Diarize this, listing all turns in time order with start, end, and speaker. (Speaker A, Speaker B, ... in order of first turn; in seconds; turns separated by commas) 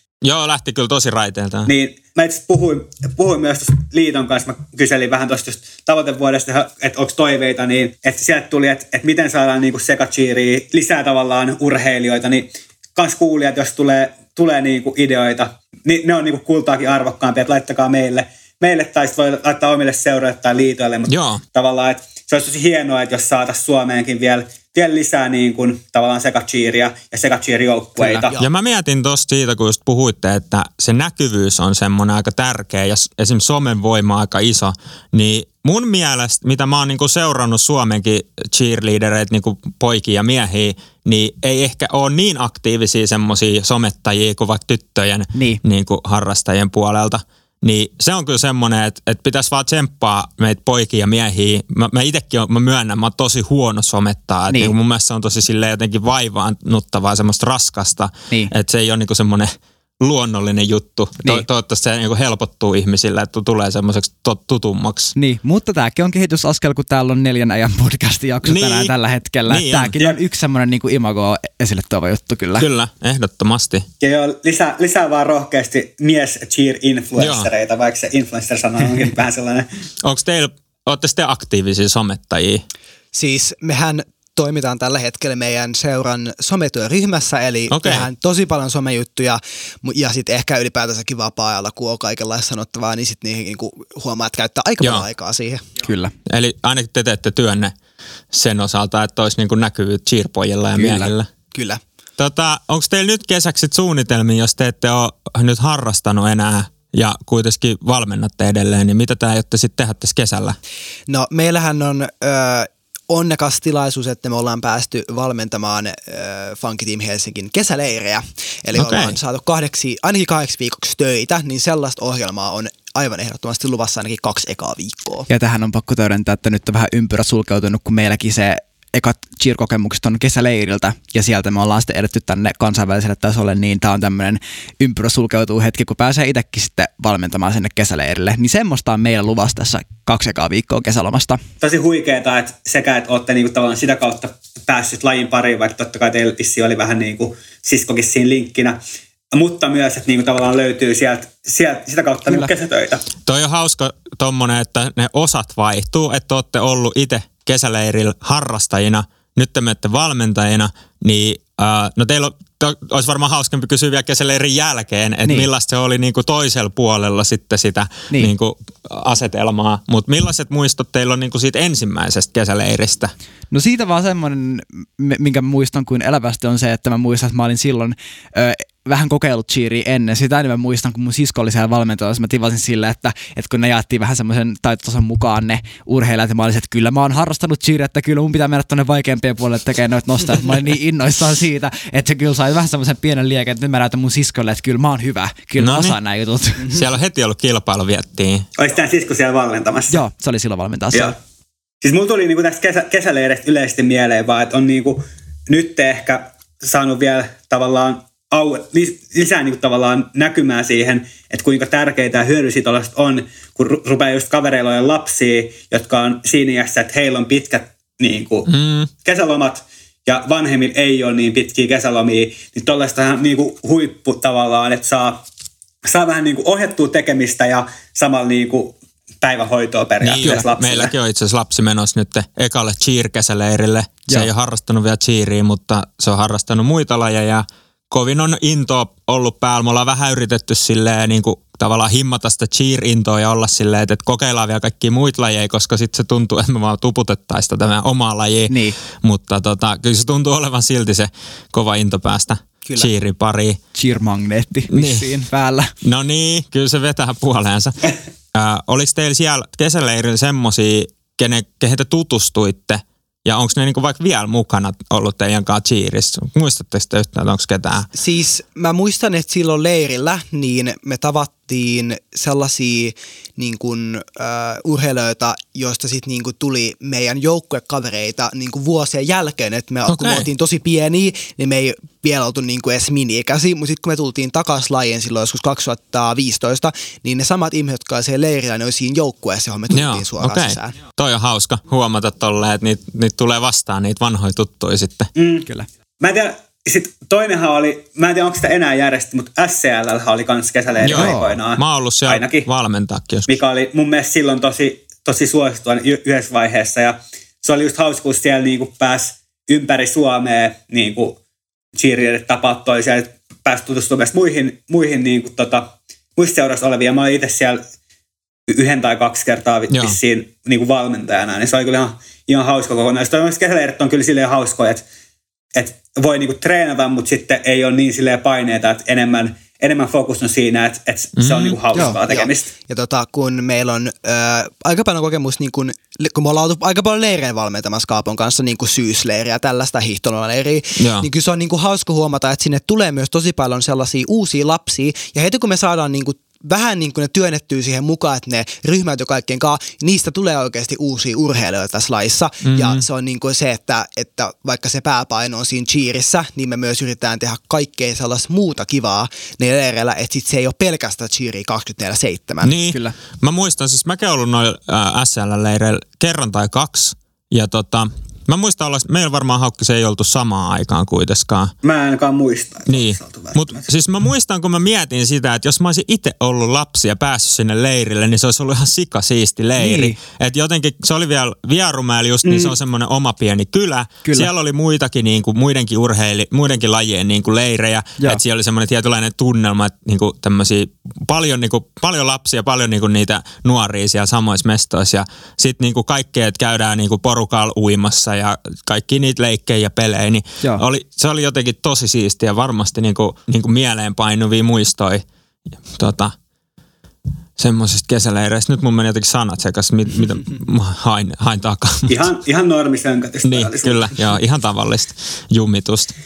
Speaker A: 0.2-1.7, Speaker B: 1.6-28.4, Speaker A: 21.1-21.4, Speaker C: 28.0-28.2, Speaker A: 28.4-65.1, Speaker C: 45.3-45.6, Speaker C: 65.2-72.7, Speaker A: 68.5-68.9, Speaker A: 69.5-69.9, Speaker A: 72.6-73.9, Speaker B: 74.0-79.7, Speaker A: 77.2-77.5, Speaker A: 80.0-82.6, Speaker D: 83.1-95.6, Speaker A: 87.7-88.0, Speaker C: 95.8-96.1, Speaker A: 96.2-97.7, Speaker A: 98.3-101.3, Speaker C: 100.8-101.1, Speaker D: 101.5-101.8, Speaker A: 102.2-110.6, Speaker D: 111.1-125.3, Speaker A: 118.8-119.2, Speaker C: 125.3-141.4, Speaker B: 141.6-148.8, Speaker B: 149.3-153.0, Speaker A: 153.2-173.1, Speaker C: 173.5-196.8, Speaker A: 195.6-195.9, Speaker A: 196.6-198.5, Speaker B: 198.6-200.0, Speaker C: 199.9-201.2, Speaker B: 201.8-218.5, Speaker A: 218.5-218.9, Speaker B: 219.0-225.2, Speaker B: 225.8-230.9, Speaker A: 230.0-253.6, Speaker C: 248.5-248.7, Speaker D: 252.6-252.9, Speaker C: 253.7-255.7, Speaker A: 254.7-255.1, Speaker A: 255.8-267.9, Speaker D: 267.9-290.8, Speaker A: 279.9-280.2, Speaker A: 289.7-295.1, Speaker B: 295.1-295.5, Speaker B: 296.0-302.5, Speaker C: 300.8-301.3, Speaker A: 300.8-303.3, Speaker B: 303.3-311.2, Speaker B: 311.7-317.6, Speaker B: 318.5-324.8, Speaker A: 319.7-320.0, Speaker B: 325.5-332.5, Speaker A: 331.2-331.6, Speaker D: 332.1-362.6, Speaker A: 340.8-341.1, Speaker A: 352.4-352.8, Speaker A: 362.4-371.5, Speaker C: 362.7-362.9, Speaker B: 371.6-373.7, Speaker A: 372.7-405.0, Speaker C: 379.6-380.0, Speaker B: 382.2-382.6, Speaker C: 384.0-384.3, Speaker A: 405.7-406.1, Speaker A: 407.4-412.1, Speaker B: 411.9-413.9, Speaker A: 413.2-415.9